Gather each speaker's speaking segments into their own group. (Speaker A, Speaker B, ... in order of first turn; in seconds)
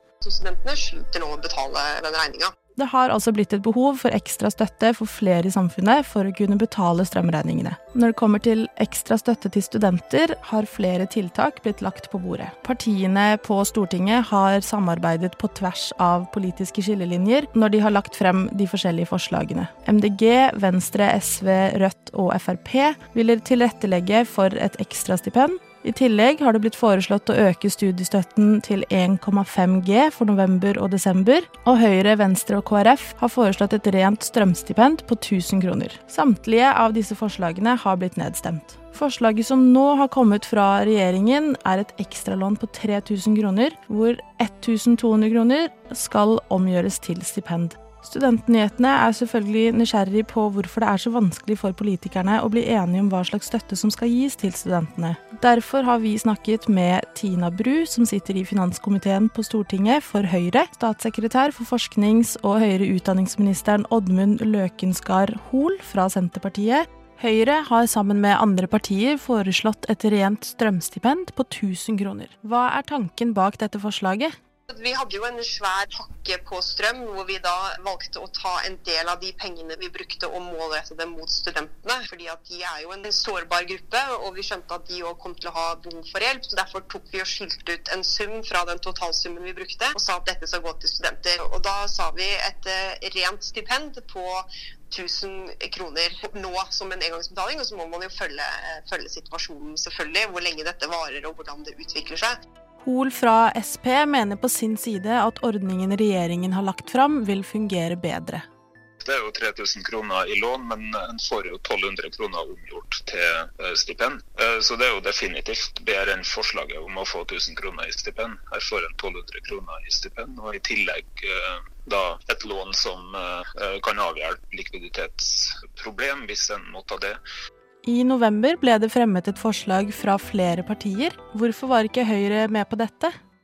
Speaker A: 0.2-2.5, 74.7-102.4
Speaker B: 2.8-74.3, 102.8-108.5, 127.8-133.1
Speaker C: 109.0-127.2